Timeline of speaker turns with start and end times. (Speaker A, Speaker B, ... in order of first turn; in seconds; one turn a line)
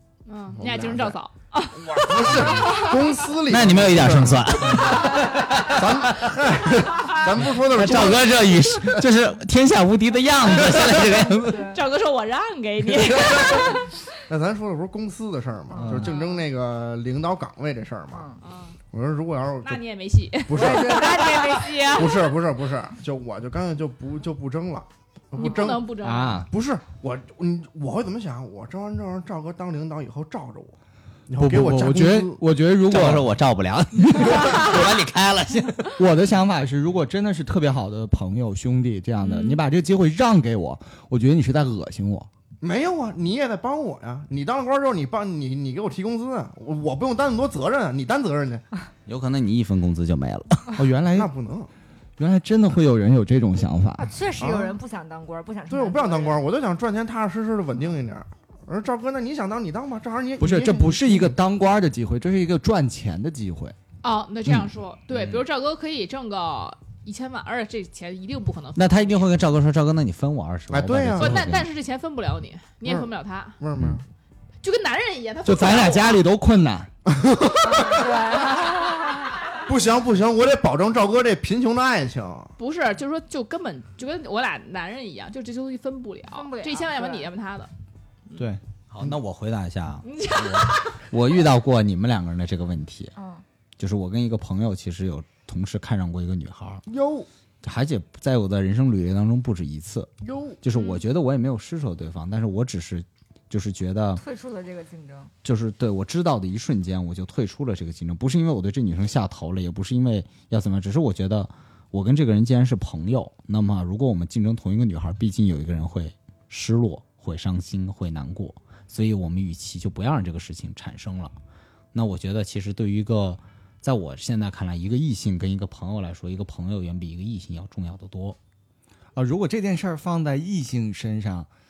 Speaker A: 0.3-3.0
Speaker B: 0.6-1.2
Speaker B: 1.7-9.0
Speaker C: 3.5-6.4
Speaker D: 4.8-5.4
Speaker C: 7.4-11.6
Speaker A: 10.5-14.0
Speaker D: 11.3-11.8
Speaker B: 13.1-18.3
Speaker D: 15.7-16.2
Speaker E: 15.8-16.1
Speaker A: 16.0-16.4
Speaker D: 18.1-18.4
Speaker A: 18.4-18.8
Speaker B: 18.9-19.8
Speaker A: 19.6-22.2
Speaker B: 20.5-30.8
Speaker D: 20.5-22.2
Speaker A: 25.4-26.5
Speaker E: 26.0-26.5
Speaker B: 31.3-32.4
Speaker E: 31.4-33.3
Speaker C: 32.9-35.9
Speaker E: 34.0-34.7
Speaker A: 34.3-34.7
Speaker E: 36.0-42.3
Speaker A: 39.2-39.6
Speaker B: 42.6-48.7
Speaker C: 49.1-50.7
Speaker E: 50.8-51.3
Speaker B: 51.1-51.7
Speaker E: 52.2-54.1
Speaker D: 54.0-56.4
Speaker B: 54.4-54.7
Speaker B: 55.7-61.4
Speaker E: 60.4-63.8
Speaker A: 64.0-69.3
Speaker C: 65.1-65.4
Speaker C: 68.8-71.7
Speaker B: 70.7-71.5
Speaker A: 71.2-73.6
Speaker B: 72.8-74.0
Speaker A: 74.6-76.2
Speaker E: 75.4-76.9
Speaker B: 77.1-78.5
Speaker D: 77.6-79.4
Speaker A: 78.6-79.2
Speaker B: 79.5-82.5
Speaker A: 82.6-87.7
Speaker D: 86.3-87.3
Speaker C: 88.9-93.2
Speaker A: 90.0-91.1
Speaker D: 93.2-93.4
Speaker C: 93.8-96.8
Speaker B: 96.9-97.3
Speaker C: 97.6-104.2
Speaker B: 100.2-100.6
Speaker A: 100.7-101.0
Speaker D: 104.2-105.3
Speaker C: 105.4-121.3
Speaker C: 121.9-128.4
Speaker E: 129.2-131.5